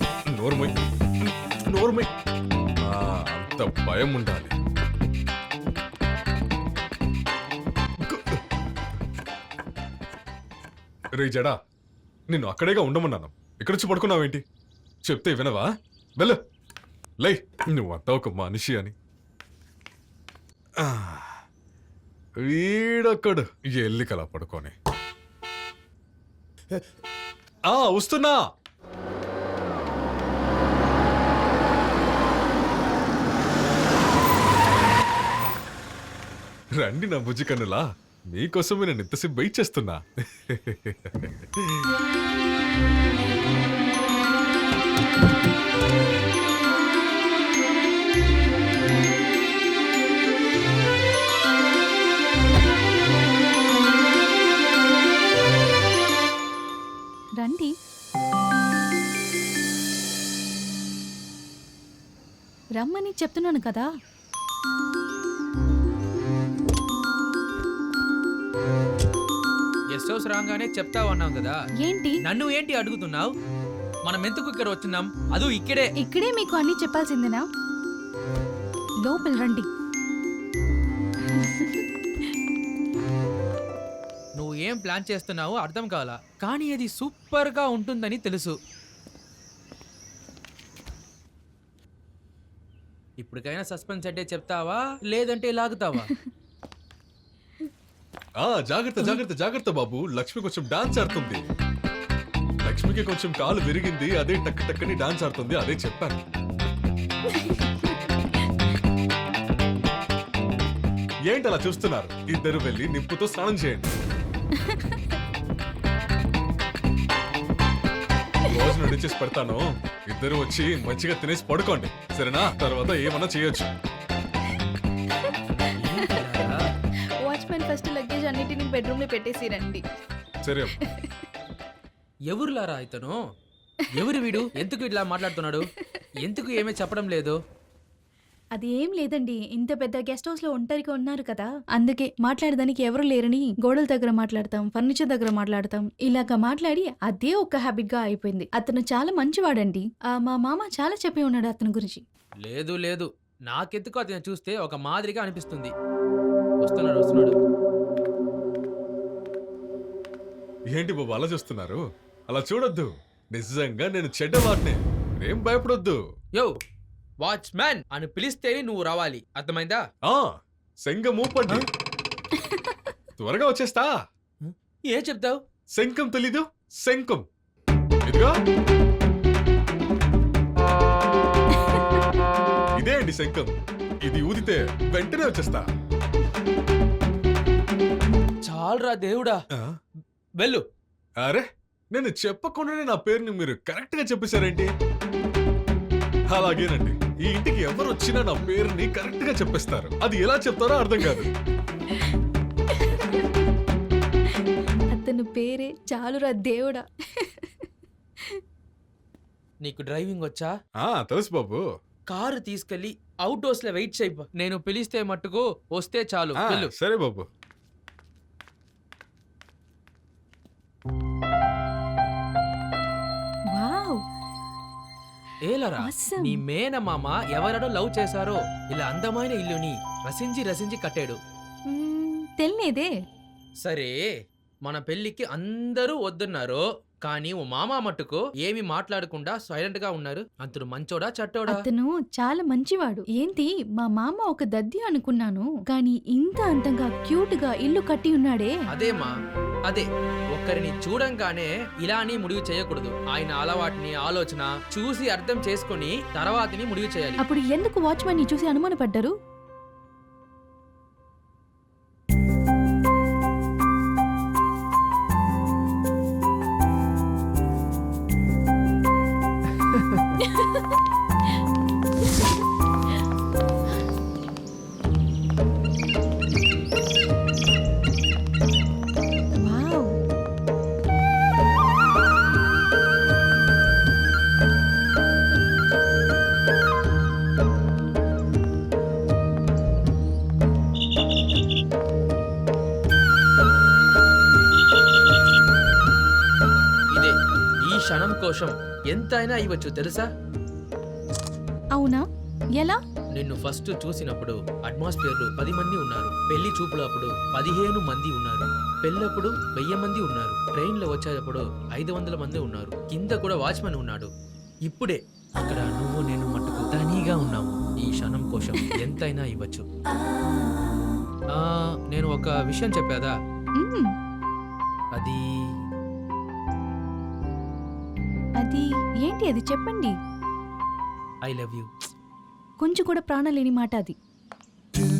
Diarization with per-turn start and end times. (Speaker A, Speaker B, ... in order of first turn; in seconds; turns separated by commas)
Speaker A: 0.3-2.1, Speaker A: 2.8-4.5, Speaker A: 8.0-8.4, Speaker A: 11.1-11.6, Speaker A: 12.3-14.4, Speaker A: 15.0-16.4, Speaker A: 17.2-18.9, Speaker A: 20.8-21.4, Speaker A: 22.4-24.7, Speaker A: 27.7-28.4, Speaker A: 36.8-41.9, Speaker B: 57.4-57.7, Speaker B: 62.8-63.9, Speaker C: 69.9-71.6, Speaker B: 71.8-72.2, Speaker C: 72.2-73.3, Speaker C: 74.0-75.9, Speaker B: 76.0-77.4, Speaker B: 79.0-79.7, Speaker B: 81.3-81.8, Speaker C: 84.4-88.5, Speaker C: 93.2-96.1, Speaker A: 98.4-101.4, Speaker A: 102.6-106.2, Speaker B: 107.3-108.1, Speaker A: 111.3-113.9, Speaker B: 114.6-115.0, Speaker A: 118.4-123.7, Speaker C: 125.8-126.6, Speaker B: 125.9-126.2, Speaker B: 127.2-129.8, Speaker A: 130.4-130.7, Speaker B: 130.8-131.2, Speaker C: 132.3-133.2, Speaker C: 133.9-135.7, Speaker B: 134.0-134.4, Speaker B: 135.8-136.1, Speaker C: 136.2-137.3, Speaker B: 138.5-152.0, Speaker C: 152.4-155.7, Speaker C: 156.6-157.3, Speaker A: 160.7-166.0, Speaker C: 167.2-169.8, Speaker A: 170.0-171.7, Speaker B: 172.5-172.8, Speaker A: 173.2-174.0, Speaker C: 174.4-175.4, Speaker A: 175.7-177.2, Speaker A: 178.0-178.3, Speaker B: 181.5-181.9, Speaker A: 182.8-183.5, Speaker A: 184.0-185.7, Speaker C: 188.4-189.4, Speaker A: 191.2-194.7, Speaker A: 196.3-201.3, Speaker B: 202.7-203.3, Speaker B: 204.9-207.7, Speaker C: 209.6-210.5, Speaker A: 210.8-211.6, Speaker C: 212.1-216.7, Speaker A: 216.3-217.2, Speaker B: 223.5-224.0, Speaker C: 225.5-231.2, Speaker B: 225.8-226.4, Speaker B: 231.7-232.9, Speaker C: 233.6-234.0, Speaker C: 234.6-241.6, Speaker B: 241.5-248.5, Speaker C: 248.7-249.1, Speaker C: 249.7-257.2, Speaker B: 257.2-259.1, Speaker B: 270.2-270.5, Speaker B: 279.4-279.9, Speaker C: 296.9-300.1, Speaker B: 301.7-302.0, Speaker C: 303.1-314.1, Speaker C: 314.7-319.6, Speaker C: 321.3-323.1, Speaker B: 323.6-323.9, Speaker C: 325.0-325.2, Speaker B: 328.4-329.9, Speaker C: 331.2-331.7, Speaker B: 332.6-333.9